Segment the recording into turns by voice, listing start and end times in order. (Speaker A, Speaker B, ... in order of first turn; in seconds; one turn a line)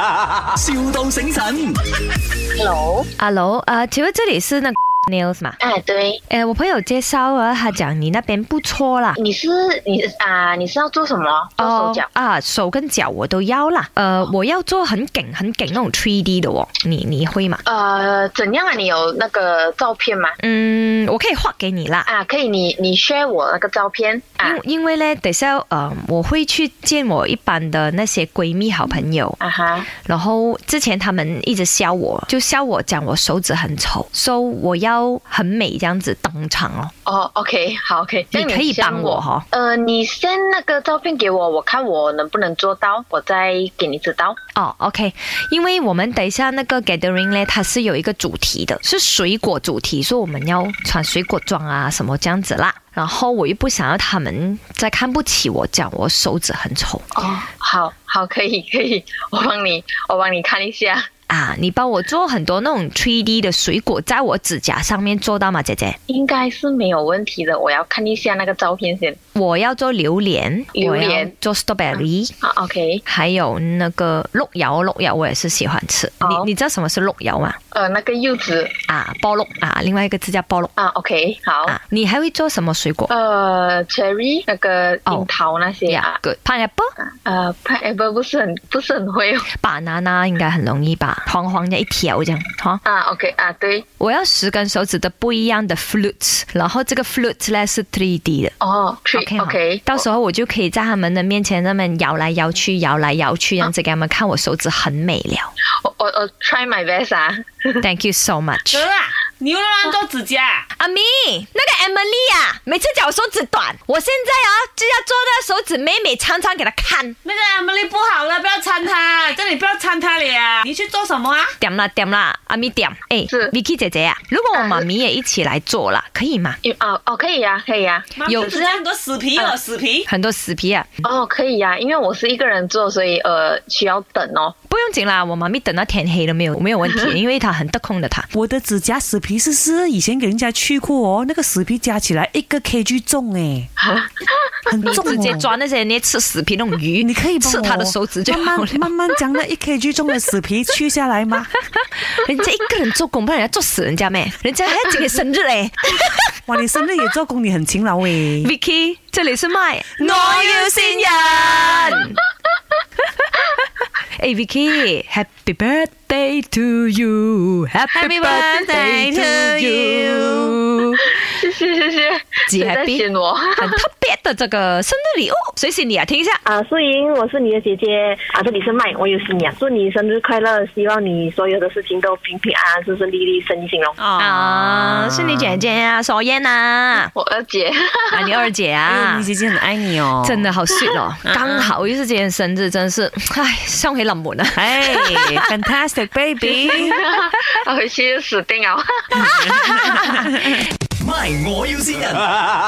Speaker A: 0.5-1.8
Speaker B: 2.5-3.1
Speaker C: 3.2-5.6
Speaker B: 5.6-6.2
Speaker C: 6.3-9.2
Speaker B: 9.2-12.1
Speaker C: 11.6-17.6
Speaker B: 17.6-20.4
Speaker C: 20.4-22.1
Speaker B: 22.1-24.6
Speaker C: 24.4-29.4
Speaker B: 29.4-29.9
Speaker C: 30.0-36.9
Speaker B: 37.0-44.4
Speaker C: 38.3-39.5
Speaker C: 44.5-57.1
Speaker B: 57.1-61.1
Speaker C: 61.3-66.0
Speaker B: 66.1-69.2
Speaker C: 69.3-72.3
Speaker B: 70.7-71.3
Speaker B: 72.0-73.0
Speaker C: 73.1-77.6
Speaker B: 76.2-76.5
Speaker B: 77.7-78.7
Speaker C: 78.9-80.7
Speaker B: 80.8-81.8
Speaker C: 81.7-83.1
Speaker B: 83.1-86.2
Speaker C: 85.9-86.9
Speaker B: 87.1-89.5
Speaker C: 89.6-92.8
Speaker B: 92.8-93.8
Speaker C: 94.0-98.5
Speaker B: 98.6-100.0
Speaker C: 99.1-105.5
Speaker B: 105.8-107.8
Speaker C: 107.8-108.9
Speaker D: 108.7-110.6
Speaker C: 110.8-117.2
Speaker D: 117.2-121.5
Speaker C: 121.6-126.6
Speaker B: 123.3-123.5
Speaker B: 124.5-124.9
Speaker B: 126.6-128.8
Speaker D: 128.2-130.0
Speaker C: 128.2-128.6
Speaker C: 130.1-130.9
Speaker B: 131.0-134.5
Speaker C: 134.7-138.3
Speaker E: 138.3-143.7
Speaker B: 143.8-144.5
Speaker E: 144.7-145.5
Speaker C: 144.8-148.9
Speaker E: 147.0-151.5
Speaker C: 152.0-156.2
Speaker E: 156.5-158.5
Speaker C: 158.4-162.2
Speaker D: 160.1-160.3
Speaker E: 160.1-160.5
Speaker D: 161.0-161.9
Speaker C: 164.2-171.1
Speaker E: 167.9-170.5
Speaker B: 171.1-173.8
Speaker C: 172.5-173.0
Speaker C: 173.6-176.4
Speaker F: 176.5-183.9
Speaker B: 176.5-183.8
Speaker D: 184.0-185.2
Speaker C: 184.2-187.1
Speaker B: 187.1-188.4
Speaker C: 188.1-189.3
Speaker E: 188.9-190.4
Speaker C: 190.2-195.4
Speaker D: 191.3-191.6
Speaker E: 194.5-197.0
Speaker B: 196.5-199.5
Speaker C: 199.3-200.2
Speaker A: 200.9-202.3